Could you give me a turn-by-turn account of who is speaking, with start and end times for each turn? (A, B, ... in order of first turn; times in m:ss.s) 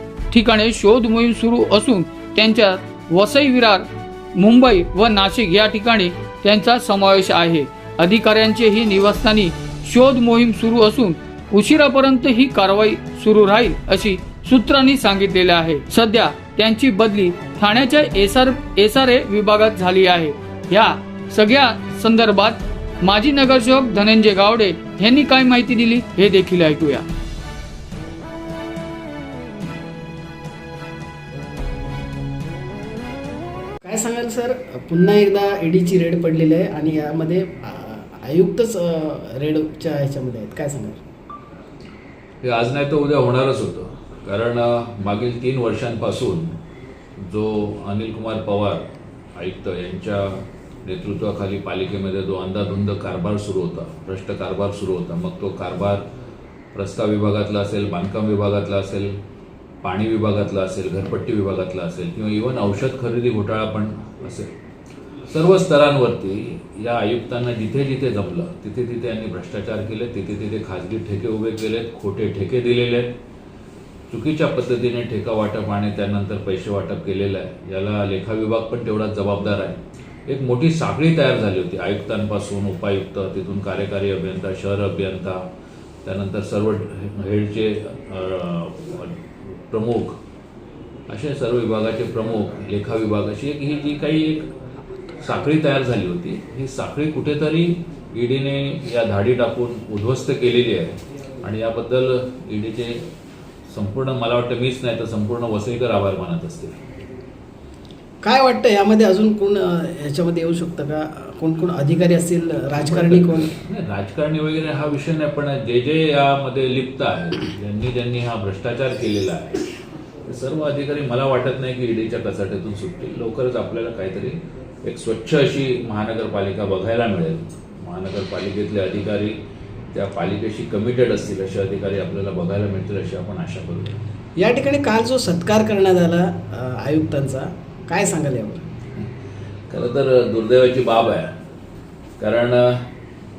0:00.3-0:27.0 A
0:33.8-0:41.0 B
0:42.4-0:46.5 C
0:47.2-0:48.8 C
0:49.4-0:56.0 C
0:56.7-0:59.1 C
0:59.8-1:04.5 C
1:05.3-1:13.1 C
1:14.1-1:25.4 C
1:26.0-1:29.2 C
1:29.7-1:30.2 C
1:31.1-1:34.5 C
1:35.2-1:43.0 C
1:43.7-1:46.8 C
1:48.2-1:53.5 B
1:52.8-1:59.7 C
2:00.2-2:09.4 C
2:09.9-2:13.9 C
2:14.4-2:18.6 B
2:19.7-2:21.3 C
2:22.2-2:22.9 C